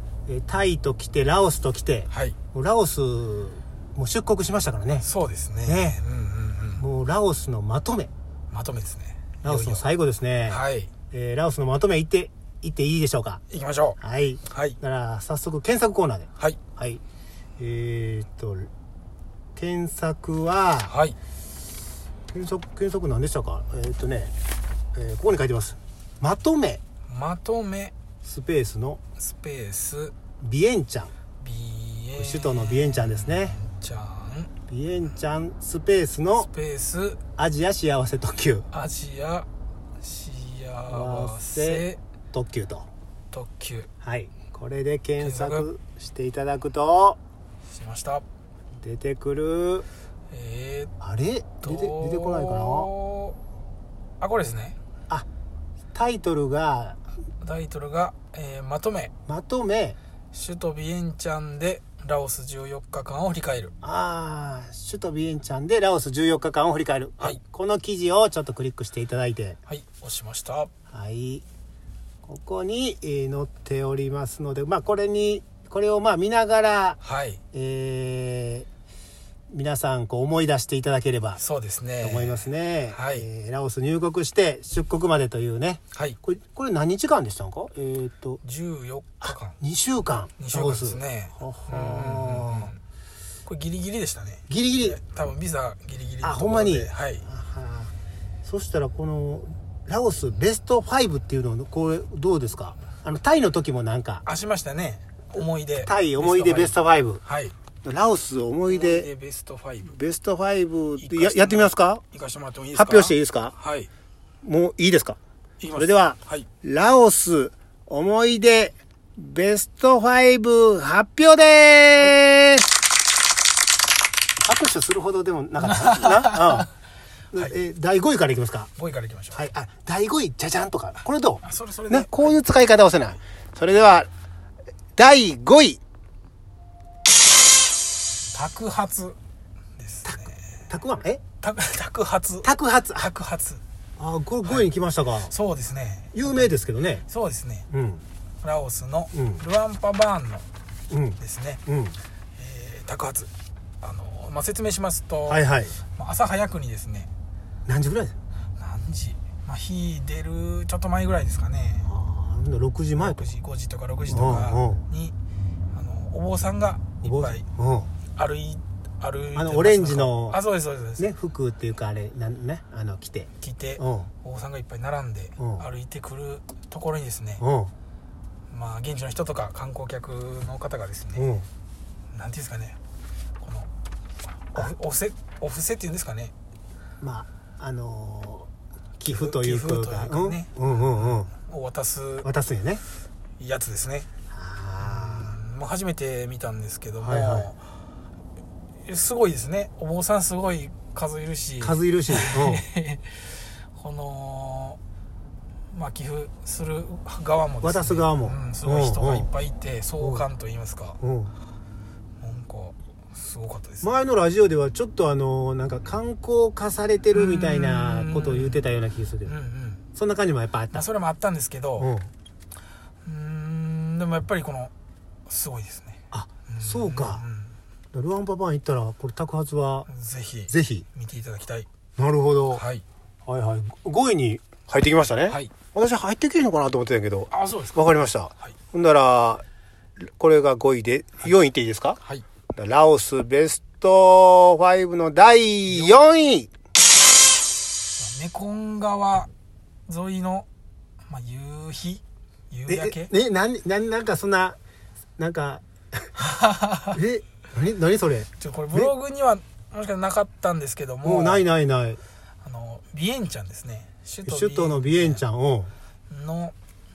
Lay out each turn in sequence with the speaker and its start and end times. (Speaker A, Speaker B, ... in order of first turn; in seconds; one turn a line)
Speaker A: 0.3-5.1
Speaker B: 2.1-2.4
Speaker B: 5.0-6.8
Speaker A: 5.7-6.0
Speaker A: 6.8-8.1
Speaker B: 8.5-9.9
Speaker A: 9.4-13.4
Speaker B: 10.5-10.9
Speaker B: 13.5-14.0
Speaker A: 14.0-17.0
Speaker B: 14.5-14.8
Speaker A: 17.6-18.7
Speaker A: 19.6-20.9
Speaker B: 20.9-21.2
Speaker A: 22.3-24.3
Speaker A: 24.9-26.8
Speaker B: 27.1-27.9
Speaker A: 28.2-29.0
Speaker B: 29.2-30.1
Speaker A: 30.4-31.1
Speaker B: 31.4-34.5
Speaker A: 32.2-33.6
Speaker A: 34.7-36.5
Speaker B: 36.4-37.2
Speaker A: 37.4-38.7
Speaker B: 38.7-39.5
Speaker B: 40.0-42.0
Speaker A: 40.9-42.9
Speaker B: 43.3-43.9
Speaker A: 44.0-47.2
Speaker B: 45.2-45.7
Speaker B: 47.7-48.2
Speaker A: 48.8-49.9
Speaker B: 50.3-50.9
Speaker A: 51.0-52.9
Speaker B: 51.6-53.4
Speaker B: 54.2-54.8
Speaker A: 55.9-57.0
Speaker B: 57.4-59.1
Speaker A: 59.3-60.0
Speaker B: 60.3-63.7
Speaker A: 63.8-69.6
Speaker B: 69.7-70.7
Speaker A: 70.9-71.4
Speaker A: 72.2-77.0
Speaker B: 77.0-77.4
Speaker A: 77.5-78.7
Speaker A: 79.5-81.4
Speaker B: 81.4-83.3
Speaker A: 82.0-88.4
Speaker B: 88.4-89.6
Speaker A: 89.2-92.7
Speaker B: 90.4-92.8
Speaker B: 93.5-97.3
Speaker A: 94.5-95.0
Speaker A: 96.2-97.9
Speaker A: 98.5-104.2
Speaker B: 104.2-107.5
Speaker A: 105.4-107.2
Speaker A: 107.8-109.1
Speaker B: 108.7-110.0
Speaker A: 109.8-112.0
Speaker B: 111.0-113.9
Speaker A: 112.8-113.5
Speaker A: 114.4-115.2
Speaker B: 115.6-116.5
Speaker A: 115.8-122.7
Speaker A: 124.4-126.7
Speaker B: 125.6-126.6
Speaker A: 127.3-128.7
Speaker B: 128.8-129.4
Speaker A: 129.3-134.1
Speaker B: 131.4-132.3
Speaker A: 135.0-135.8
Speaker B: 138.3-139.2
Speaker B: 139.8-140.4
Speaker A: 140.1-141.2
Speaker B: 141.4-143.6
Speaker A: 142.4-143.1
Speaker A: 144.0-145.3
Speaker B: 145.3-146.5
Speaker A: 146.1-147.0
Speaker B: 147.1-147.7
Speaker A: 147.7-148.0
Speaker B: 148.4-150.5
Speaker A: 149.1-149.4
Speaker A: 150.9-152.0
Speaker B: 151.2-151.6
Speaker B: 152.4-153.3
Speaker B: 153.8-157.1
Speaker A: 155.3-155.8
Speaker A: 157.7-158.2
Speaker B: 158.6-161.9
Speaker A: 161.9-163.3
Speaker B: 163.0-165.2
Speaker A: 164.1-164.9
Speaker B: 165.7-167.4
Speaker A: 167.0-167.9
Speaker B: 168.2-171.1
Speaker A: 169.3-170.4
Speaker A: 171.0-174.1
Speaker B: 173.4-177.4
Speaker A: 175.4-175.7
Speaker A: 177.4-177.7
Speaker B: 178.5-181.3
Speaker A: 181.2-181.5
Speaker B: 182.1-182.8
Speaker B: 183.4-183.7
Speaker B: 184.5-186.3
Speaker A: 187.0-191.3
Speaker B: 189.1-192.3
Speaker A: 192.2-192.8
Speaker B: 193.4-194.1
Speaker A: 194.3-195.4
Speaker B: 194.8-197.6
Speaker A: 197.0-197.5
Speaker B: 198.8-204.8
Speaker A: 201.6-202.6
Speaker B: 205.7-211.0
Speaker A: 207.6-209.3
Speaker A: 210.0-210.2
Speaker A: 211.0-211.3
Speaker B: 212.2-213.9
Speaker A: 213.8-219.3
Speaker B: 217.1-218.7
Speaker B: 219.3-219.8
Speaker A: 219.9-220.8
Speaker B: 220.7-221.9
Speaker A: 221.8-222.1
Speaker B: 223.0-224.7
Speaker B: 225.3-227.5
Speaker A: 226.1-227.2
Speaker A: 227.9-229.9
Speaker B: 229.9-231.7
Speaker A: 230.5-230.9
Speaker A: 232.0-232.6
Speaker B: 232.5-232.8
Speaker A: 233.3-239.4
Speaker B: 237.3-238.5
Speaker A: 240.1-242.0
Speaker A: 242.6-246.5
Speaker B: 245.7-246.0
Speaker B: 247.9-249.3
Speaker B: 249.9-250.5
Speaker B: 251.1-253.1
Speaker A: 252.7-254.6
Speaker A: 255.2-256.1
Speaker B: 256.2-257.0
Speaker A: 256.9-258.9
Speaker B: 258.4-261.5
Speaker A: 261.0-262.0
Speaker B: 262.4-265.2
Speaker A: 264.3-265.7
Speaker B: 266.1-266.6